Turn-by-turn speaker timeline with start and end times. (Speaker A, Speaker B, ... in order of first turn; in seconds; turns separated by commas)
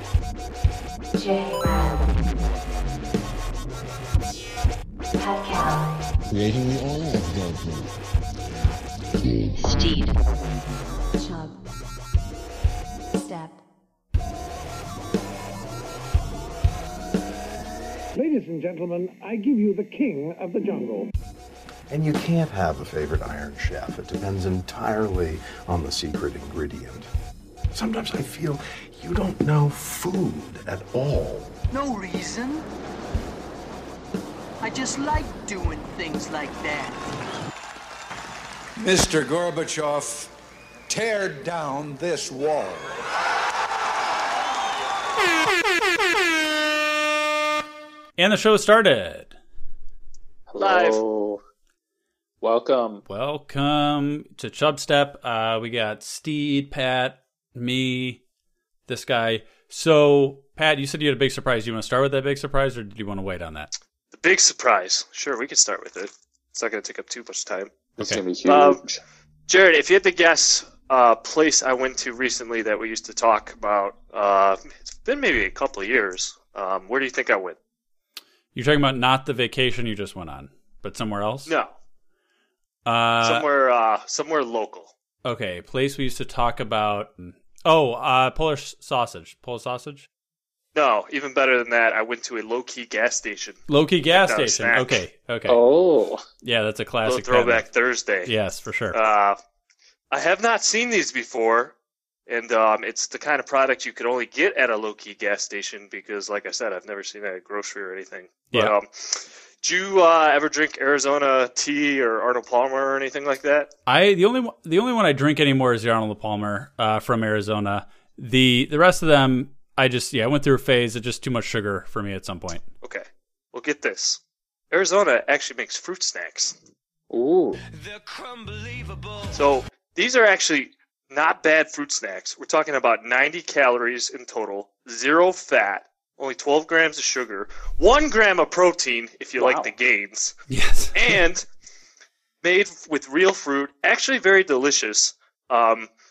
Speaker A: 1.1-2.0, Speaker A: 5.2-5.9, Speaker B: 6.3-7.9, Speaker B: 9.2-9.5, Speaker A: 9.6-10.2, Speaker A: 11.2-11.5, Speaker A: 13.2-13.5, Speaker C: 18.1-21.1, Speaker D: 21.9-27.1, Speaker D: 27.7-31.6, Speaker E: 31.7-32.7, Speaker E: 34.6-37.0, Speaker F: 38.8-40.3, Speaker F: 40.9-43.0, Speaker G: 48.2-49.3, Speaker H: 50.5-51.4, Speaker I: 50.6-51.0, Speaker H: 52.4-53.0, Speaker G: 53.1-58.2, Speaker G: 58.9-63.7, Speaker I: 64.1-67.7, Speaker H: 68.0-69.0, Speaker I: 68.4-68.8, Speaker I: 69.5-77.6, Speaker G: 78.5-81.5, Speaker I: 81.5-81.7, Speaker G: 82.8-83.5, Speaker I: 83.2-84.9, Speaker G: 85.2-90.1, Speaker I: 90.7-93.6, Speaker G: 93.7-95.6, Speaker I: 94.1-95.0, Speaker H: 95.5-96.2, Speaker G: 96.4-97.6, Speaker I: 97.0-98.3, Speaker G: 98.2-99.0, Speaker I: 98.9-99.4, Speaker I: 100.1-101.7, Speaker I: 102.3-113.7, Speaker G: 113.9-122.6, Speaker I: 122.8-126.5, Speaker H: 127.1-127.6, Speaker E: 127.7-129.4, Speaker I: 129.3-140.3, Speaker H: 139.4-139.7, Speaker G: 140.5-141.2, Speaker I: 140.9-141.4, Speaker I: 142.4-145.9